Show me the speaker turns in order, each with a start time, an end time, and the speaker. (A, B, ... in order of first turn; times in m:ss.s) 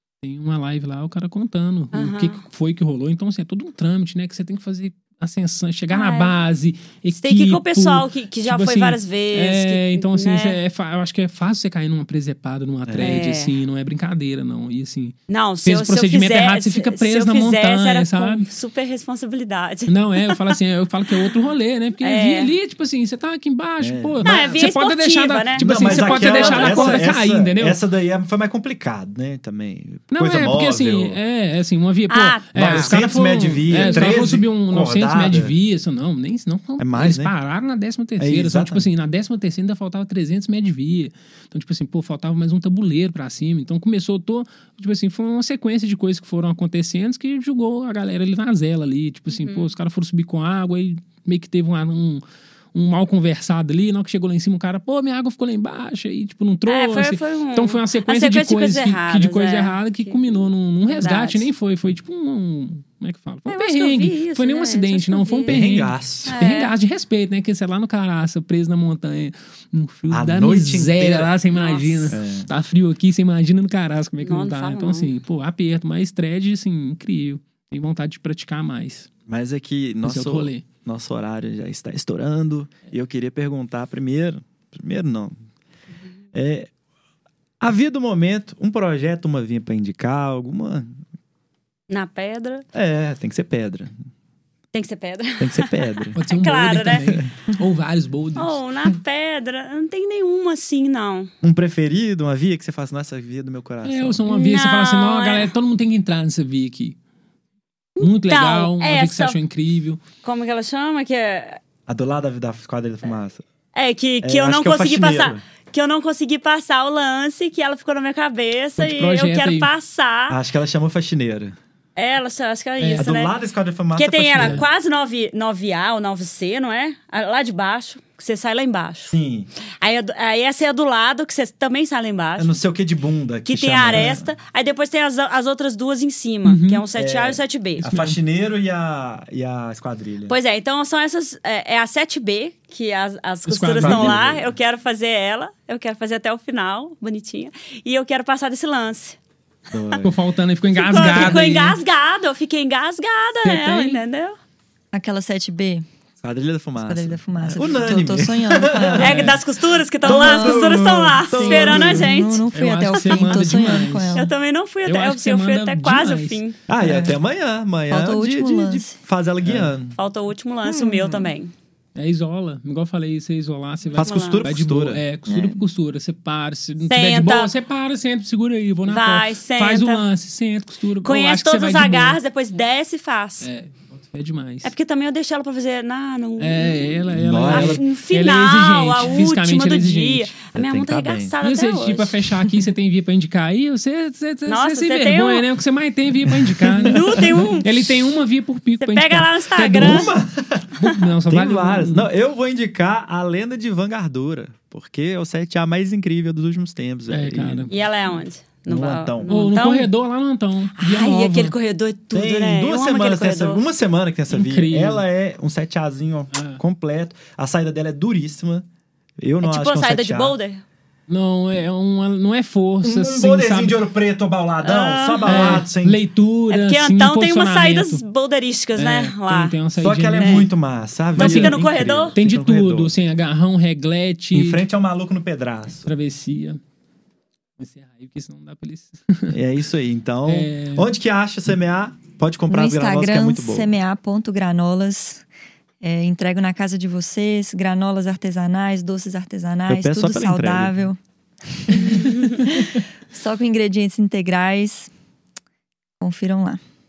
0:00.2-0:18.4 A
0:01.9-0:02.4 B
0:05.9-0:06.3 B
0:07.1-0:10.6 B
0:12.8-0:13.2 C
0:13.0-0:13.6 B
0:15.3-0:20.5 B
0:19.9-0:27.8 A
0:22.0-0:22.5 B
0:23.8-0:24.6 C
0:24.2-0:27.1 B
0:25.6-0:31.2 C
0:30.1-1:19.1 A
0:32.1-0:33.0 B
0:32.5-0:35.5 C
0:33.7-0:34.2 B
0:36.8-0:37.3 C
0:38.2-0:38.9 C
0:49.3-0:49.7 B
0:56.6-1:01.5 B
1:03.5-1:05.5 B
1:05.5-1:06.4 C
1:06.2-1:06.7 B
1:10.1-1:11.3 C
1:11.5-1:12.2 B
1:12.1-1:12.5 C
1:14.2-1:15.1 B
1:19.3-1:25.3 C
1:20.0-1:20.6 A
1:26.3-1:26.7 C
1:27.6-1:31.0 C
1:31.9-1:32.7 B
1:32.7-1:33.9 C
1:34.7-1:37.2 B
1:35.4-1:36.2 C
1:36.2-1:38.6 A
1:38.4-1:41.3 B
1:41.4-1:44.2 C
1:43.8-1:47.0 A
1:44.3-1:45.5 B
1:48.0-1:49.4 B
1:48.0-1:50.0 A
1:50.2-1:51.6 B
1:51.9-1:53.4 C
1:53.7-2:00.4 B
1:54.2-1:55.4 C
1:58.8-1:59.7 A
2:00.3-2:01.6 C
2:02.0-2:03.3 B
2:02.8-2:03.1 A
2:02.9-2:04.6 C
2:03.9-2:09.1 B
2:09.1-2:09.5 C
2:09.8-2:12.6 B
2:12.4-2:14.3 C
2:13.5-2:17.8 B
2:16.4-2:16.8 A
2:16.9-2:20.4 C
2:17.8-2:18.2 A
2:20.3-2:29.2 B
2:23.5-2:24.2 A
2:23.8-2:24.5 C
2:29.7-2:30.2 C
2:30.0-2:31.8 A
2:30.7-2:34.4 B
2:33.4-2:34.0 A
2:34.9-2:35.8 D
2:36.2-2:39.4 C
2:36.8-2:39.4 D
2:39.0-2:43.4 B
2:40.0-2:42.2 C
2:40.0-2:44.3 D
2:42.5-2:44.3 A
2:44.1-2:46.6 B
2:44.8-2:46.4 A
2:46.7-2:50.0 C
2:46.8-2:47.2 D
2:47.9-2:49.0 D
2:49.4-2:49.7 A
2:50.0-2:51.5 B
2:50.6-2:51.3 D
2:51.9-3:02.2 A
2:53.9-2:55.0 C
2:54.0-2:54.5 B
2:55.3-2:55.6 D
2:56.9-2:57.5 B
2:58.9-3:00.0 B
3:01.0-3:03.5 B
3:03.4-3:04.7 A
3:04.6-3:12.5 B
3:06.4-3:10.3 A
3:07.1-3:07.8 C
3:10.5-3:11.3 C
3:11.4-3:20.1 A
3:14.5-3:15.4 B
3:16.3-3:17.2 C
3:16.8-3:17.8 B
3:18.8-3:20.1 B
3:19.7-3:20.7 C
3:20.7-3:22.1 A
3:21.3-3:27.7 C
3:27.1-3:27.7 A
3:27.7-3:29.9 B
3:28.7-3:29.3 C
3:29.3-3:31.5 A
3:30.8-3:33.6 B
3:32.1-3:38.6 C
3:34.3-3:35.0 A
3:36.3-3:36.6 A
3:39.2-3:40.4 C
3:39.4-3:40.6 B
3:41.1-3:43.8 A
3:42.8-3:46.0 C
3:44.6-3:45.6 B
3:45.2-3:48.0 A
3:46.5-3:49.5 B
3:48.8-3:50.5 A
3:49.7-3:52.9 C
3:50.1-3:50.5 B
3:51.2-3:52.2 B
3:51.2-3:54.6 A
3:54.3-3:55.9 C
3:55.8-3:56.6 A
3:57.6-3:59.4 A
3:59.3-4:03.7 C
4:00.2-4:00.9 A
4:02.5-4:05.2 D
4:05.8-4:14.9 D
4:09.7-4:10.8 C
4:16.0-4:16.6 D